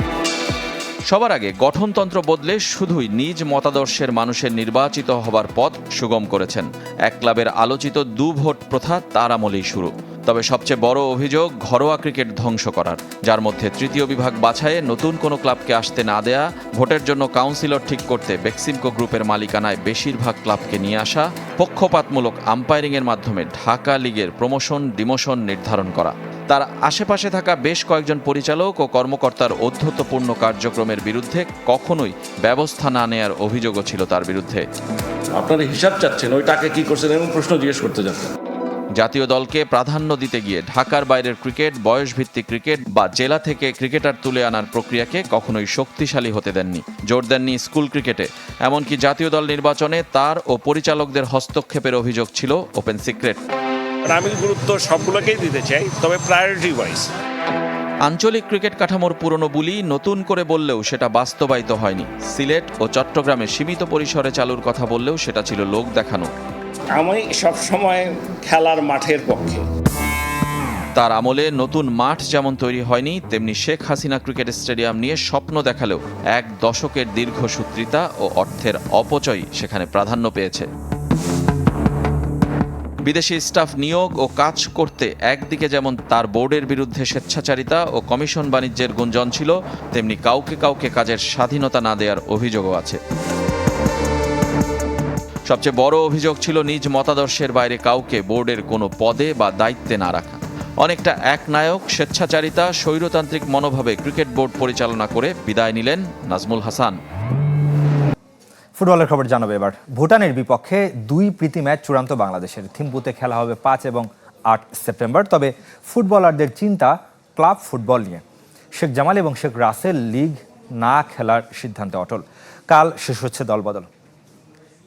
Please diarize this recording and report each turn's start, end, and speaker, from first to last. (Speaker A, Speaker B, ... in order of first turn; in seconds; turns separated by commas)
Speaker A: 1.1-34.6, Speaker B: 35.4-38.3, Speaker A: 39.0-53.4, Speaker B: 54.1-57.1, Speaker A: 58.0-66.3, Speaker B: 66.9-69.7, Speaker A: 70.9-80.7, Speaker A: 83.0-93.0, Speaker A: 95.5-107.0, Speaker C: 108.8-118.2, Speaker C: 118.8-123.9